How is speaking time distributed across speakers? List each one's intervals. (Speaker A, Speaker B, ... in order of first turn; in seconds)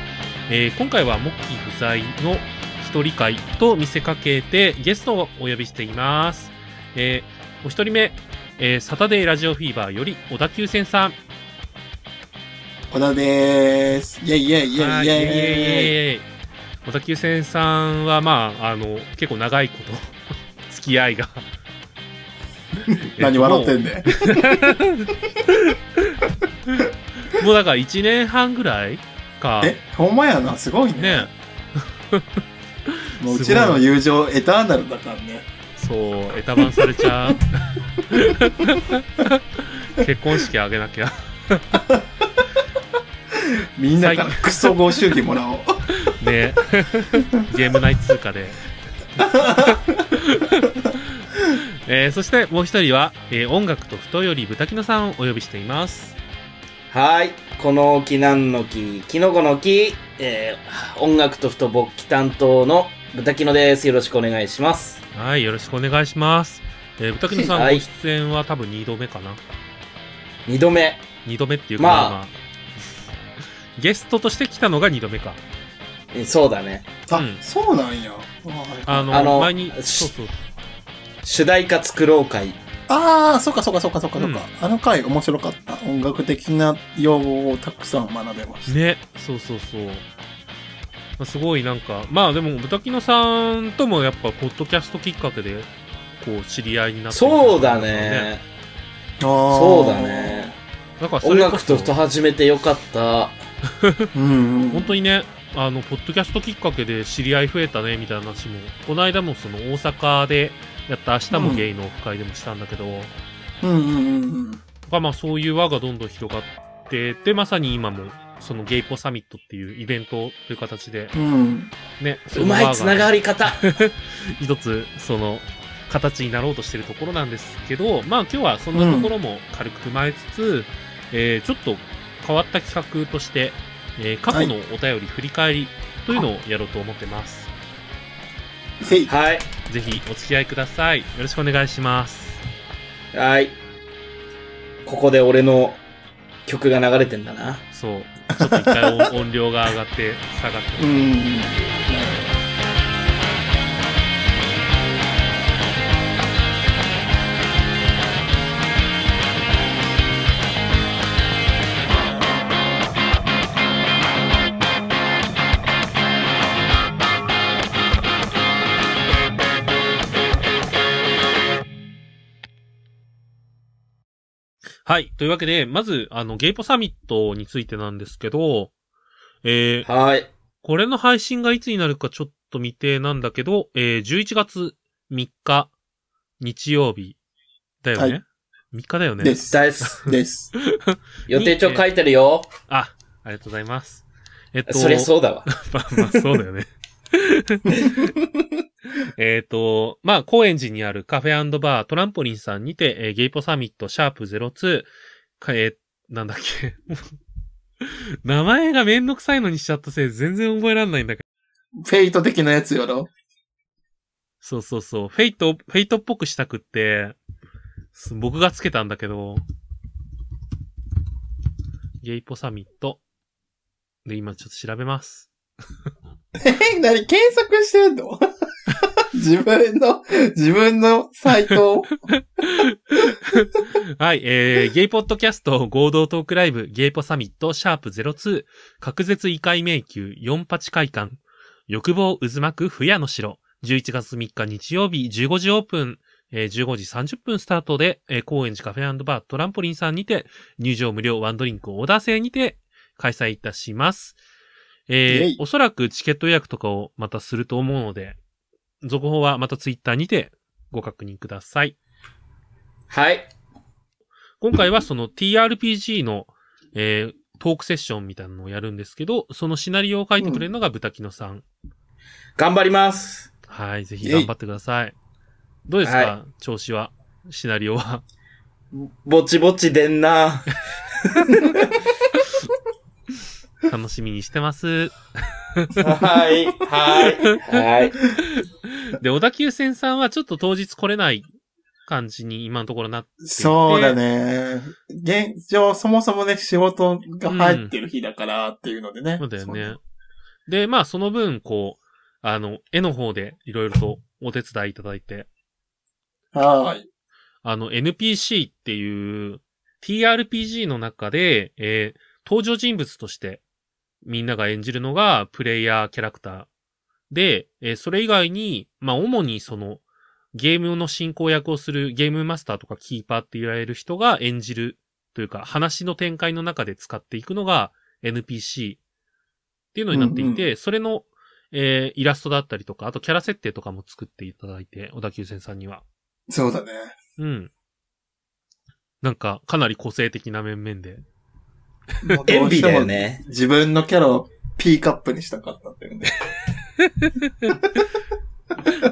Speaker A: 0.5-11.2, 14.8-16.3, 16.8-21.4, 23.2-29.8, 31.0-32.2, 33.2-33.8, 35.8-41.8, 44.0-44.8, 46.0-48.6, 49.2-56.2, 65.1-69.4, 71.2-72.4, 73.8-75.4, 77.1-77.4, 78.9-80.3, 84.2-84.5, 88.7-90.0, 91.2-98.3, 101.0-101.9, 103.8-104.1, 104.7-113.1, 114.9-121.2, 122.0-137.5, 139.7-142.4, 147.7-151.1, 174.8-178.7, 179.4-179.9, 180.6-185.7, 186.4-187.2, 187.8-189.4, 190.6-191.8, 192.7-198.1, 199.0-207.2, 207.8-211.2, 214.4-217.2, 217.9-219.4, 222.0-223.0, 224.1-225.3, 232.1-254.2, 254.9-258.2, 258.8-261.8, 264.4-271.4, 273.5-274.9, 275.7-278.0, 283.6-285.0, 285.5-285.9, 287.2-287.6, 288.3-291.3, 291.9-294.0, 297.3-297.8, 299.2-299.8, 300.5-305.3, 307.4-313.4, 314.0-316.5, 317.1-319.8, 320.3-328.8, 329.7-335.8, 337.2-337.5, 339.0-341.0, 346.8-347.6
Speaker B: 12.9-15.9, 22.9-24.8, 29.6-31.3, 33.2-35.5, 43.3-45.8, 49.2-50.1, 77.1-79.4, 82.9-88.8, 99.2-100.6, 104.1-104.9, 111.3-111.7, 113.6-114.6, 121.1-121.7, 128.7-129.1, 138.8-139.1, 148.4-149.1, 150.8-152.4, 189.2-190.5, 197.7-198.4, 211.8-213.1, 226.4-231.9, 255.1-255.4, 270.2-270.4, 274.0-274.3, 293.2-299.8, 306.3-306.9, 329.9-330.4, 336.3-336.9, 342.0-346.2
Speaker C: 56.9-65.0, 67.3-67.9, 70.5-71.1, 71.8-72.2, 76.1-76.9, 79.1-80.1, 81.2-82.6, 97.1-98.4, 99.5-100.5, 101.2-103.4, 122.3-123.6, 139.1-139.5, 143.1-143.6, 144.8-145.8, 146.5-147.6, 179.8-180.3, 189.5-190.0, 191.3-192.5, 194.7-195.5, 262.9-263.3, 272.4-273.3, 275.8-276.1, 278.7-280.6, 281.2-281.8, 285.8-288.0, 342.2-343.2